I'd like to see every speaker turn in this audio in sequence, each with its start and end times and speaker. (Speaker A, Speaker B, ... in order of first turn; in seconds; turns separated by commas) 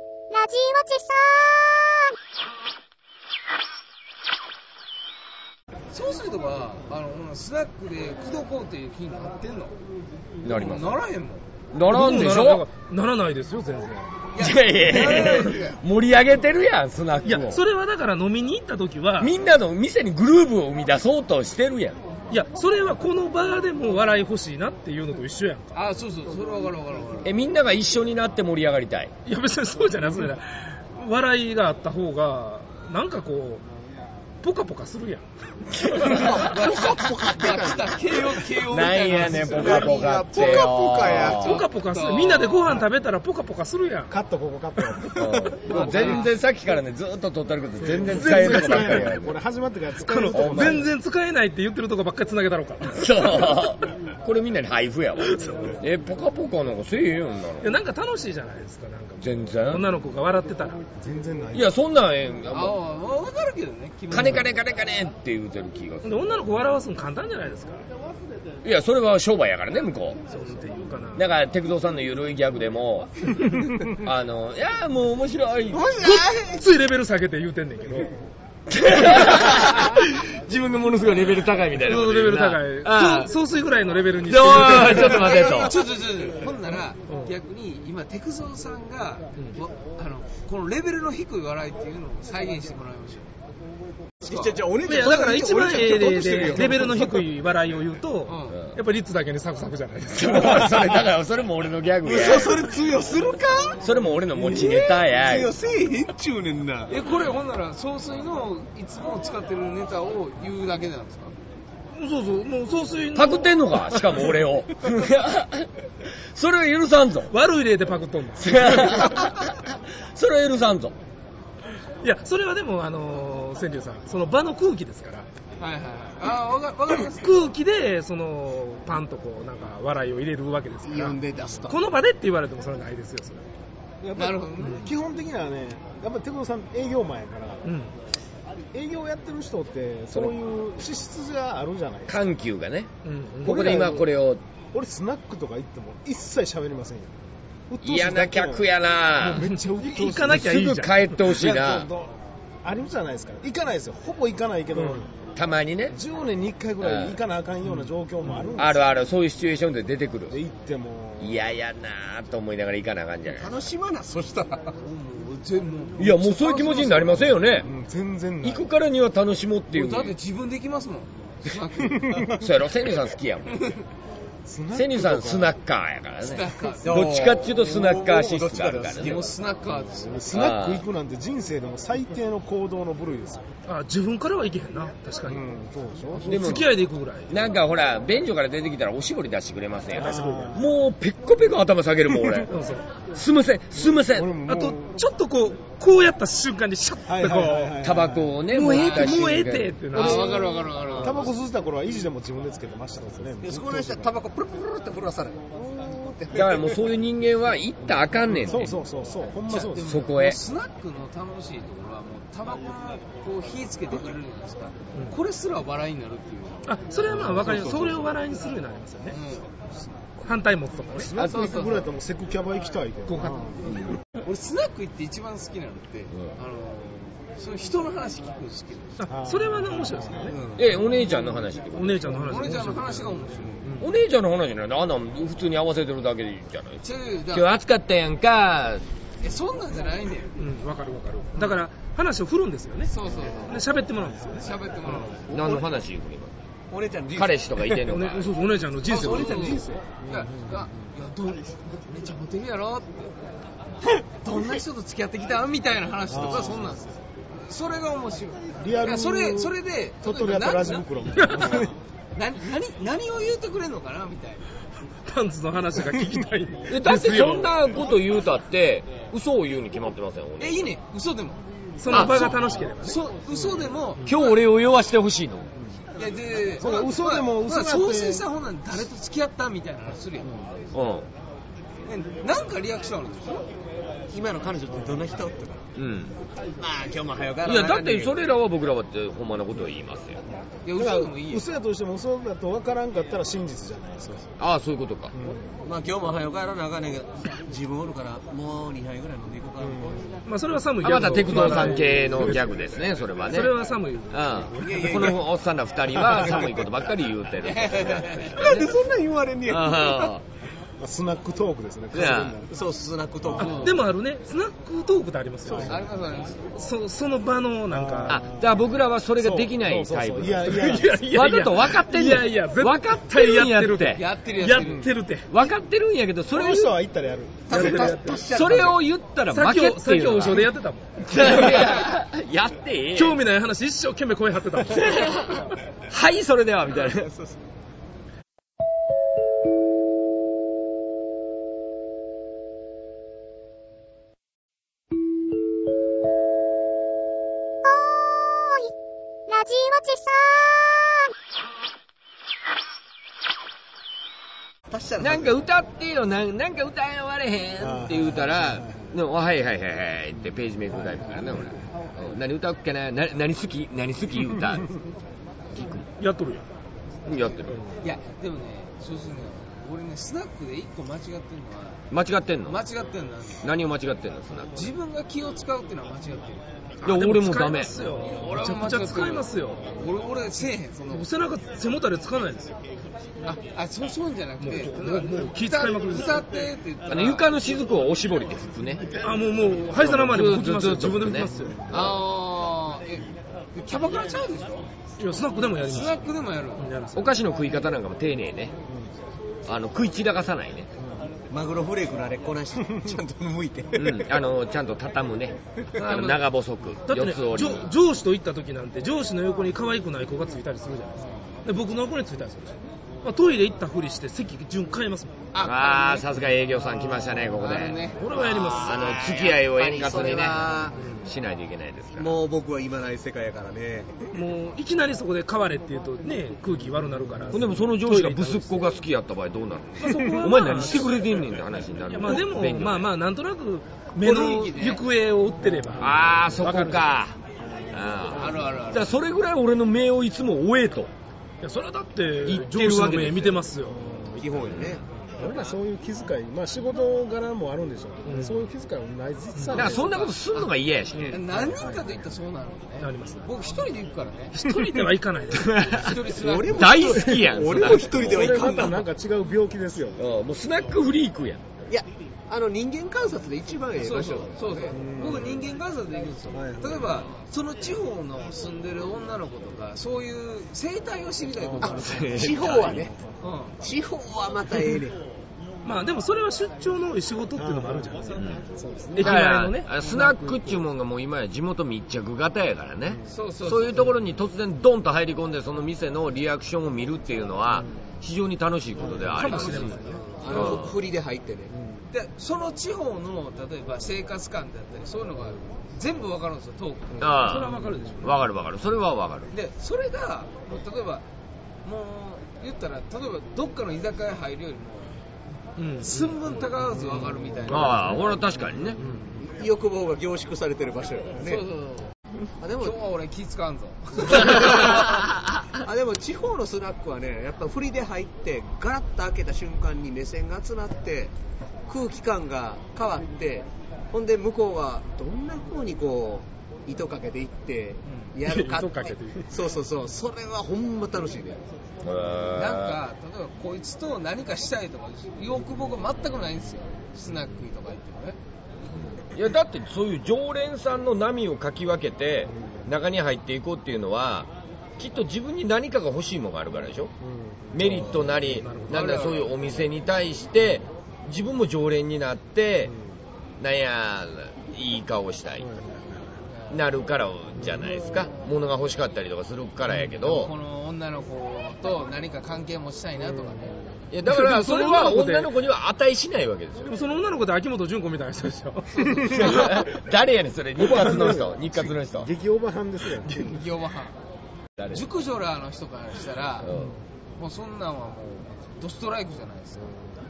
Speaker A: 0.3-2.1, Speaker B: 5.9-9.8, Speaker C: 10.4-11.0, Speaker B: 10.4-11.4, Speaker C: 11.7-12.7, Speaker D: 11.9-14.1, Speaker B: 14.3-15.8, Speaker C: 14.4-17.6, Speaker D: 17.2-19.3, Speaker C: 19.2-22.0, Speaker D: 22.3-25.8, Speaker B: 25.7-27.3, Speaker C: 27.2-29.1, Speaker D: 29.3-33.6, Speaker D: 34.4-36.3, Speaker C: 35.7-36.2, Speaker E: 36.0-38.3, Speaker B: 36.4-40.7, Speaker C: 38.7-41.7, Speaker E: 39.5-41.5, Speaker D: 41.3-44.1, Speaker B: 41.6-42.8, Speaker F: 44.1-45.9, Speaker C: 45.1-49.4, Speaker B: 45.7-46.3, Speaker F: 47.9-50.9, Speaker D: 48.0-49.0, Speaker D: 50.0-53.7, Speaker C: 50.3-50.8, Speaker C: 52.9-57.8, Speaker D: 55.2-55.8, Speaker D: 57.6-60.8, Speaker C: 59.2-59.9, Speaker F: 61.0-61.8, Speaker C: 61.5-62.8, Speaker B: 62.5-64.5, Speaker C: 64.1-66.2, Speaker D: 66.0-67.8, Speaker C: 68.6-70.2, Speaker D: 70.3-71.3, Speaker C: 71.2-76.0, Speaker E: 75.7-76.6, Speaker D: 76.0-78.2, Speaker C: 78.7-83.3, Speaker D: 81.8-85.4, Speaker C: 84.3-85.7, Speaker B: 84.9-93.3, Speaker D: 87.1-87.3, Speaker E: 94.2-97.2, Speaker B: 94.2-94.6, Speaker D: 94.8-100.8, Speaker B: 98.2-98.6, Speaker C: 100.1-102.8, Speaker E: 102.0-107.0, Speaker C: 103.8-105.5, Speaker B: 106.9-111.3, Speaker D: 112.0-114.3, Speaker C: 113.1-117.3, Speaker D: 117.3-119.1, Speaker C: 118.4-121.0, Speaker D: 122.0-125.3, Speaker B: 125.6-127.5, Speaker D: 127.1-133.4, Speaker E: 130.8-131.8, Speaker F: 134.0-137.6, Speaker B: 134.2-134.8, Speaker D: 134.6-134.9, Speaker D: 137.6-137.9, Speaker F: 138.7-142.2, Speaker C: 142.1-142.9, Speaker D: 143.0-143.6, Speaker F: 143.4-144.1, Speaker C: 143.4-144.4, Speaker F: 144.7-147.1, Speaker F: 147.7-148.7, Speaker C: 147.8-149.5, Speaker D: 149.2-151.3, Speaker F: 149.3-150.5, Speaker C: 150.2-151.9, Speaker F: 151.3-155.1, Speaker D: 154.8-155.0, Speaker C: 155.3-156.0, Speaker F: 155.9-158.9, Speaker C: 156.8-157.2, Speaker C: 158.6-160.4, Speaker F: 160.3-161.4, Speaker C: 161.2-163.7, Speaker E: 163.2-164.7, Speaker B: 164.8-167.6, Speaker C: 166.0-167.7, Speaker F: 167.6-168.8, Speaker C: 168.4-170.2, Speaker B: 169.7-172.3, Speaker C: 172.3-173.6, Speaker B: 173.5-173.8, Speaker F: 174.4-175.6, Speaker C: 174.7-179.2, Speaker B: 176.2-177.1, Speaker E: 176.8-179.4, Speaker B: 178.9-180.2, Speaker F: 179.7-183.4, Speaker C: 180.3-180.9, Speaker D: 183.7-185.4, Speaker F: 185.3-186.4, Speaker D: 186.1-187.3, Speaker C: 186.3-186.8, Speaker C: 187.3-192.5, Speaker F: 189.9-190.7, Speaker D: 190.0-190.5, Speaker F: 192.1-192.4, Speaker D: 192.5-192.9, Speaker C: 193.1-194.4, Speaker F: 194.0-195.0, Speaker D: 194.5-197.8, Speaker F: 197.1-198.4, Speaker C: 197.8-200.4, Speaker D: 198.4-200.3, Speaker B: 198.7-199.3, Speaker B: 199.9-201.3, Speaker F: 200.2-204.2, Speaker E: 203.4-206.8, Speaker C: 206.3-208.8, Speaker F: 208.3-210.0, Speaker B: 209.5-216.8, Speaker C: 209.8-210.4, Speaker D: 216.7-219.2, Speaker C: 217.1-217.5, Speaker F: 217.2-218.1, Speaker B: 219.1-219.5, Speaker D: 220.2-221.1, Speaker F: 220.9-223.7, Speaker B: 221.2-221.9, Speaker D: 223.1-223.5, Speaker C: 223.7-224.0, Speaker B: 224.2-229.0, Speaker D: 229.0-230.4, Speaker F: 229.1-230.4, Speaker C: 230.6-232.4, Speaker D: 231.7-233.9, Speaker B: 232.2-233.7, Speaker C: 233.8-238.8, Speaker B: 236.8-237.5, Speaker B: 239.2-240.4, Speaker D: 240.4-245.1, Speaker B: 241.3-241.7, Speaker B: 242.8-243.6, Speaker B: 244.4-245.3, Speaker E: 245.2-245.9, Speaker C: 245.3-246.3, Speaker E: 246.7-247.7, Speaker C: 247.1-248.4, Speaker D: 247.8-249.6, Speaker B: 248.8-253.2, Speaker F: 249.3-250.7, Speaker B: 253.8-264.5, Speaker F: 256.1-256.8, Speaker F: 258.6-261.7, Speaker D: 261.2-261.6, Speaker D: 265.0-267.6, Speaker C: 266.7-270.7, Speaker B: 270.4-274.4, Speaker D: 271.8-273.0, Speaker C: 271.9-272.4, Speaker F: 273.3-273.7, Speaker C: 274.1-275.5, Speaker B: 275.9-280.6, Speaker F: 276.6-278.3, Speaker C: 280.7-281.1, Speaker B: 281.9-283.5, Speaker E: 284.1-285.7, Speaker F: 284.7-285.0, Speaker C: 285.8-286.2, Speaker E: 286.6-288.2, Speaker C: 287.4-290.2, Speaker B: 290.6-291.4, Speaker F: 290.8-294.3, Speaker C: 294.4-295.1, Speaker F: 295.1-295.6, Speaker E: 295.6-300.1, Speaker F: 299.6-300.2, Speaker D: 300.3-302.7, Speaker C: 300.8-303.6, Speaker D: 303.2-304.8, Speaker C: 304.1-308.6, Speaker E: 304.6-305.3, Speaker E: 306.1-306.5, Speaker B: 307.4-308.6, Speaker E: 308.3-310.1, Speaker C: 309.5-310.2, Speaker F: 310.8-312.6, Speaker C: 311.9-312.4, Speaker E: 312.5-313.8, Speaker F: 313.2-313.7, Speaker B: 313.4-313.9, Speaker D: 313.4-315.7, Speaker F: 315.5-315.9, Speaker E: 315.5-315.8, Speaker B: 315.6-316.5, Speaker D: 316.6-318.2, Speaker F: 317.7-321.0, Speaker C: 318.1-324.0, Speaker D: 320.5-325.3, Speaker B: 323.9-324.9, Speaker F: 324.6-324.9, Speaker C: 325.3-326.7, Speaker F: 326.3-327.7, Speaker D: 327.5-328.3, Speaker E: 327.5-328.8, Speaker C: 328.2-330.5, Speaker D: 329.3-331.7, Speaker C: 331.0-333.2, Speaker D: 332.9-335.1, Speaker C: 334.6-337.1, Speaker E: 336.9-337.4, Speaker A: 347.6-348.7, Speaker A: 349.3-351.1, Speaker E: 354.7-355.4, Speaker C: 355.0-364.7, Speaker F: 357.6-358.9, Speaker F: 360.7-361.5, Speaker C: 365.5-365.9, Speaker D: 366.0-366.4, Speaker C: 367.1-367.6, Speaker B: 367.8-371.8, Speaker C: 371.9-372.6, Speaker B: 372.4-373.5, Speaker C: 373.4-374.7, Speaker B: 374.5-376.5, Speaker D: 376.8-379.8, Speaker C: 376.8-377.9, Speaker B: 377.9-381.1, Speaker D: 380.9-382.6, Speaker B: 383.2-387.3, Speaker D: 384.4-386.2, Speaker C: 386.9-389.0, Speaker D: 388.9-391.7, Speaker C: 389.7-392.0, Speaker F: 391.3-392.0, Speaker B: 391.7-394.7, Speaker D: 395.0-397.2, Speaker B: 395.6-396.7, Speaker C: 396.9-398.6, Speaker C: 399.5-400.7, Speaker F: 400.8-401.1, Speaker E: 401.3-404.1, Speaker C: 403.7-407.8, Speaker B: 405.8-406.3, Speaker D: 406.9-415.1, Speaker B: 415.3-416.1, Speaker C: 415.4-422.2, Speaker B: 417.3-418.1, Speaker D: 417.9-418.8, Speaker E: 418.2-420.8, Speaker D: 420.7-421.1, Speaker E: 421.9-424.1, Speaker D: 424.1-428.6, Speaker C: 427.3-432.9, Speaker D: 429.8-431.0, Speaker D: 431.9-436.9, Speaker B: 434.0-434.9, Speaker C: 435.8-437.2, Speaker C: 437.7-440.9, Speaker F: 437.8-438.3, Speaker B: 438.1-438.9, Speaker D: 441.4-443.9, Speaker C: 442.2-443.4, Speaker F: 443.6-444.6, Speaker E: 444.1-444.9, Speaker C: 444.4-444.8, Speaker F: 445.1-450.0, Speaker D: 448.1-448.4, Speaker C: 449.5-451.2, Speaker B: 449.6-450.5, Speaker D: 450.9-451.3, Speaker B: 451.1-454.4, Speaker F: 451.3-452.0, Speaker D: 452.8-453.3, Speaker D: 454.3-455.9, Speaker C: 455.3-455.9, Speaker B: 455.6-456.9, Speaker E: 456.1-458.8, Speaker C: 456.5-458.1, Speaker F: 457.7-460.0, Speaker C: 460.0-461.4, Speaker E: 461.7-464.8, Speaker B: 463.8-471.8, Speaker F: 464.7-465.5, Speaker F: 466.3-467.1, Speaker F: 471.4-472.0, Speaker E: 471.6-473.0, Speaker C: 471.6-472.9, Speaker B: 473.2-473.6, Speaker E: 473.6-475.0, Speaker D: 475.6-478.2, Speaker F: 477.4-479.2, Speaker C: 478.2-478.4, Speaker D: 478.9-480.6, Speaker C: 479.0-490.8, Speaker B: 483.1-484.0, Speaker F: 488.8-489.2, Speaker D: 489.1-490.6, Speaker B: 489.2-490.6, Speaker E: 490.0-491.5, Speaker F: 491.5-491.9, Speaker B: 491.9-497.2, Speaker C: 497.0-499.3, Speaker D: 497.2-498.2, Speaker B: 499.3-501.1, Speaker B: 501.6-505.0, Speaker D: 505.6-508.1, Speaker B: 505.8-508.1, Speaker C: 507.5-508.8, Speaker D: 508.8-509.2, Speaker E: 509.2-511.4, Speaker B: 511.2-511.9, Speaker E: 512.4-512.8, Speaker B: 512.5-514.9, Speaker E: 514.3-514.8, Speaker E: 515.6-521.1, Speaker E: 521.7-531.4, Speaker B: 527.9-528.1, Speaker D: 528.2-529.3, Speaker C: 531.8-532.8, Speaker B: 532.3-538.2, Speaker C: 538.9-546.9, Speaker F: 542.3-542.7, Speaker F: 547.0-548.1, Speaker C: 547.5-552.7, Speaker D: 547.7-548.8, Speaker B: 548.7-549.3, Speaker F: 552.6-553.0, Speaker C: 553.4-555.5, Speaker F: 555.4-556.2, Speaker B: 556.3-556.6, Speaker C: 556.5-560.3, Speaker F: 557.4-557.7, Speaker B: 560.0-563.6, Speaker F: 563.0-563.8, Speaker C: 563.9-566.7, Speaker D: 564.0-565.4, Speaker D: 566.6-569.6, Speaker C: 569.1-572.1, Speaker F: 570.6-573.2, Speaker B: 573.1-574.0, Speaker C: 574.6-574.9, Speaker B: 574.7-576.5, Speaker C: 576.4-576.8, Speaker F: 576.5-576.8, Speaker B: 577.2-579.8